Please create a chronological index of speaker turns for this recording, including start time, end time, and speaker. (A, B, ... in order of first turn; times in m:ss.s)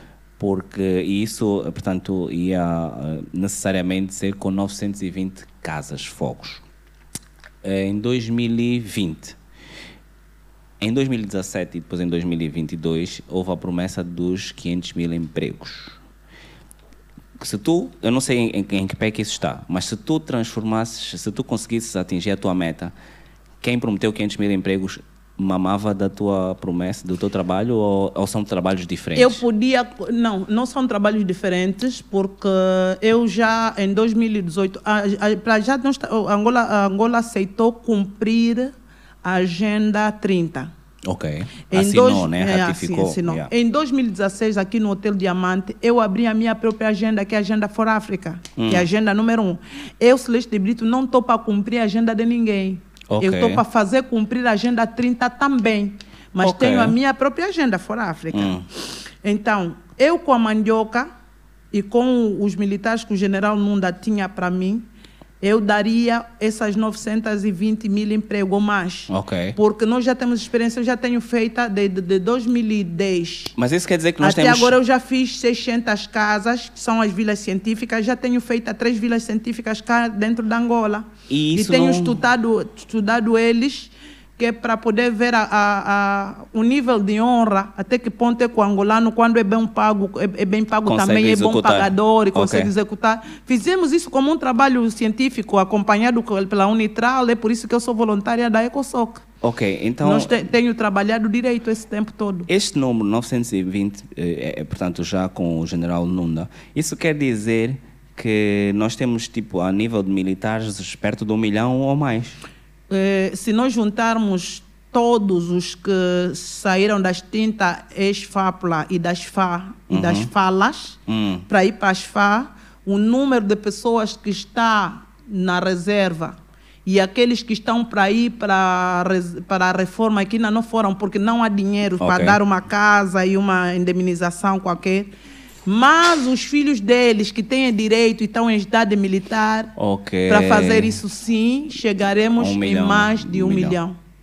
0:00.4-0:06.6 A
0:07.6-0:09.4 A
0:10.8-0:16.0 A
0:17.4-0:22.9 A
0:23.6-0:29.4 A
0:29.2-0:40.7 B
0:41.0-0:43.5 A
0:41.7-0:58.6 B
0:48.6-0:48.9 A
0:53.1-0:53.6 A
0:56.4-0:57.0 A
0:58.3-0:58.6 A
0:59.2-1:01.1 B
1:01.7-1:04.8 B
1:05.4-1:13.5 B
1:09.1-1:09.6 A
1:13.6-1:14.8 A
1:14.2-1:39.2 B
1:21.3-1:22.2 A
1:30.8-1:32.7 A
1:39.4-1:40.4 A
1:40.0-1:42.5 B
1:42.5-1:52.4 A
1:52.9-2:15.1 B
1:59.9-2:00.3 A
2:01.1-2:01.4 A
2:12.0-2:12.4 A
2:15.6-2:19.7 B
2:19.8-2:21.0 A
2:20.3-2:24.0 B
2:22.4-2:23.8 A